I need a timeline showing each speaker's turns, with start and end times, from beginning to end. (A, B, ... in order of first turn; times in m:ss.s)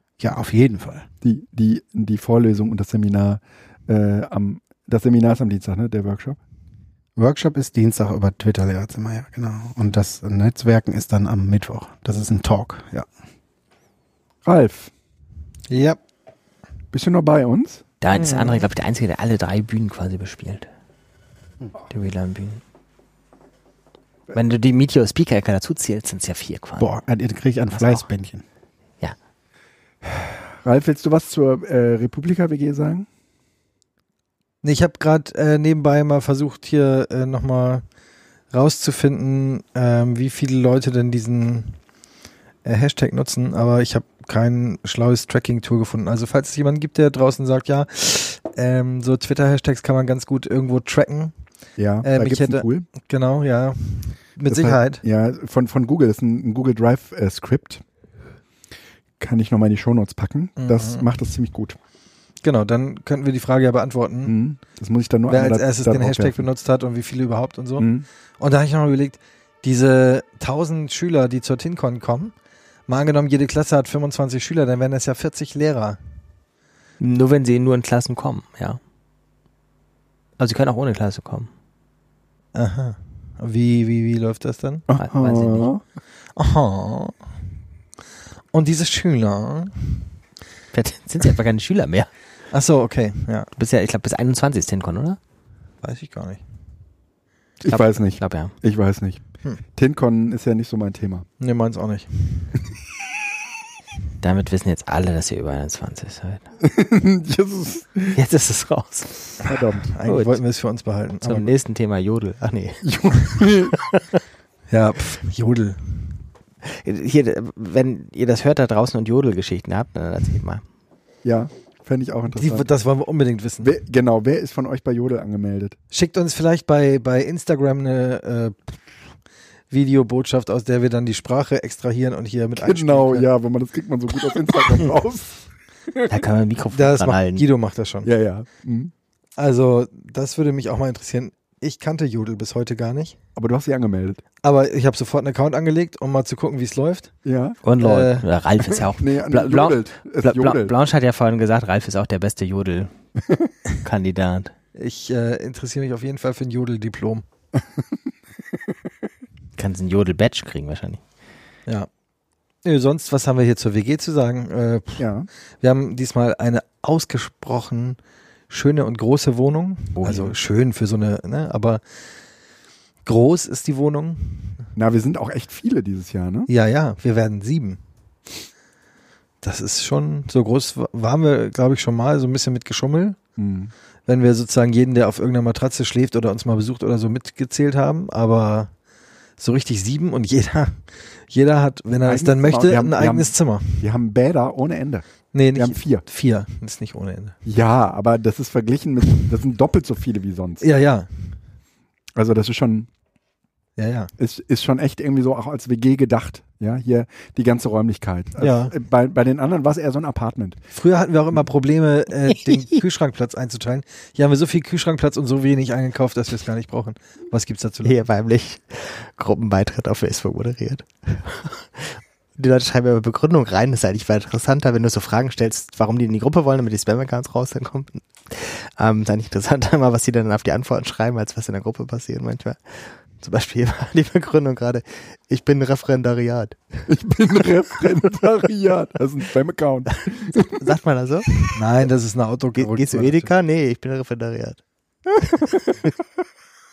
0:00.2-0:01.1 A
0:01.2-0:06.4 B
0:07.2-0:13.0 A
0:14.4-0:14.9 B
0:15.7-0:16.0 C
0:16.9-0:17.8 B
0:18.0-0:20.7 D
0:18.1-0:18.6 C
0:21.9-0:22.6 D
0:24.3-0:26.9 D
0:26.8-0:28.4 A
0:27.7-0:28.0 D
0:30.0-0:33.1 B
0:34.6-0:37.8 C
0:38.5-0:41.8 C
0:42.6-0:51.3 C
0:51.8-0:52.8 B
0:52.0-0:55.0 C
0:54.5-0:57.8 B
0:59.2-1:01.8 B
1:00.6-1:01.1 C
1:02.4-1:04.3 C
1:04.2-1:06.4 B
1:05.3-1:12.3 C
1:07.8-1:08.0 B
1:12.9-1:16.0 C
1:17.0-1:18.8 D
1:20.4-1:21.5 D
1:22.5-1:24.9 C
1:24.9-1:25.8 B
1:25.0-1:25.7 D
1:26.4-1:27.3 C
1:28.5-1:30.1 C
1:30.7-1:32.1 D
1:32.5-1:33.5 C
1:33.6-1:35.2 D
1:35.8-1:36.4 C
1:37.6-1:39.2 B
1:37.7-1:38.5 D
1:39.8-1:41.3 B
1:41.4-1:42.6 C
1:44.2-1:46.4 D
1:46.6-1:48.2 B
1:48.1-1:49.5 D
1:49.4-1:49.9 B
1:49.9-1:51.5 C
1:50.0-1:50.4 D
1:51.2-1:54.2 D
1:52.8-1:53.8 B
1:54.7-1:56.2 C
1:56.6-2:00.6 D
2:01.2-2:02.7 B
2:02.3-2:03.7 C
2:03.6-2:05.8 B
2:05.9-2:08.8 C
2:09.7-2:13.3 C
2:12.6-2:15.4 B
2:16.1-2:17.4 D
2:16.7-2:18.1 C
2:18.0-2:18.9 B
2:19.4-2:23.2 C
2:23.4-2:24.2 B
2:24.4-2:27.1 C
2:27.2-2:27.6 B
2:27.6-2:32.9 D
2:27.8-2:28.3 C
2:29.0-2:30.7 B
2:33.8-2:34.5 D
2:34.8-2:37.2 C
2:39.6-2:41.0 D
2:42.6-2:45.1 C
2:45.0-2:45.3 B
2:45.6-2:48.0 C
2:48.5-2:51.8 C
2:50.0-2:50.4 D
2:53.0-2:54.7 C
2:54.8-2:56.5 B
2:56.5-2:57.8 C
2:59.4-3:03.2 C
3:03.4-3:03.7 B
3:04.1-3:08.7 C
3:09.4-3:13.9 C
3:12.0-3:16.0 B
3:15.3-3:17.4 C
3:17.4-3:20.6 B
3:20.6-3:21.4 C
3:22.2-3:22.9 B
3:23.8-3:24.1 C
3:24.2-3:30.6 B
3:28.4-3:28.7 C
3:30.7-3:38.0 C
3:37.8-3:56.9 D
3:56.9-4:00.6 B
4:00.4-4:01.3 D
4:01.5-4:03.3 C
4:02.6-4:04.6 D
4:05.2-4:05.9 D